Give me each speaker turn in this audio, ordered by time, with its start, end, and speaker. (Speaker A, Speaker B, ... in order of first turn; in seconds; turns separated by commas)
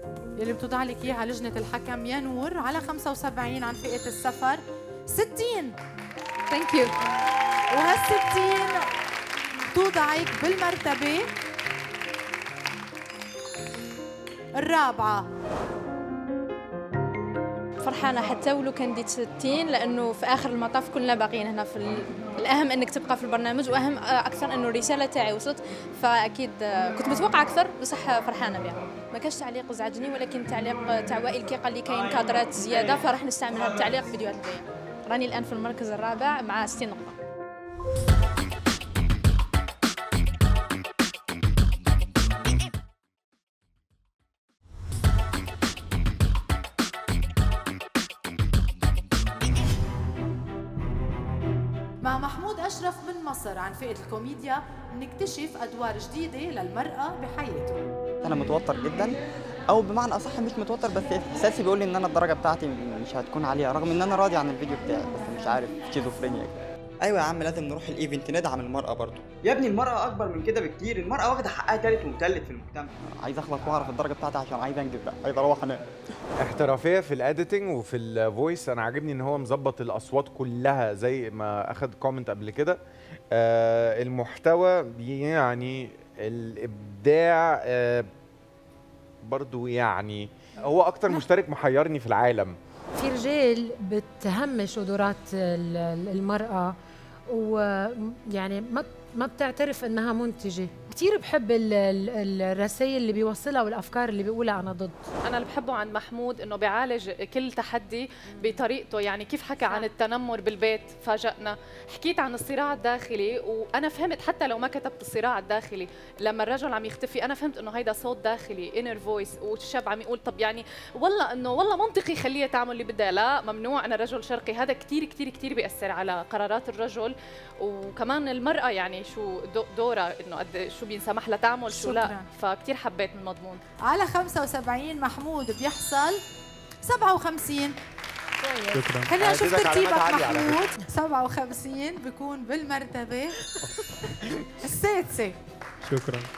Speaker A: 0.4-5.8, Speaker B: 6.5-6.9, Speaker A: 7.7-8.8, Speaker A: 9.7-11.3, Speaker A: 14.5-15.2, Speaker B: 17.8-37.1, Speaker A: 52.0-57.8, Speaker C: 58.2-59.2, Speaker C: 59.7-75.8, Speaker D: 76.4-82.8, Speaker D: 83.3-88.1, Speaker D: 89.2-92.5, Speaker E: 92.9-96.7, Speaker E: 97.3-105.0, Speaker F: 105.2-133.6, Speaker A: 131.7-132.2, Speaker A: 133.8-136.2, Speaker A: 136.8-137.8, Speaker E: 138.4-138.8, Speaker A: 139.1-143.3, Speaker D: 139.1-140.6, Speaker A: 144.6-145.3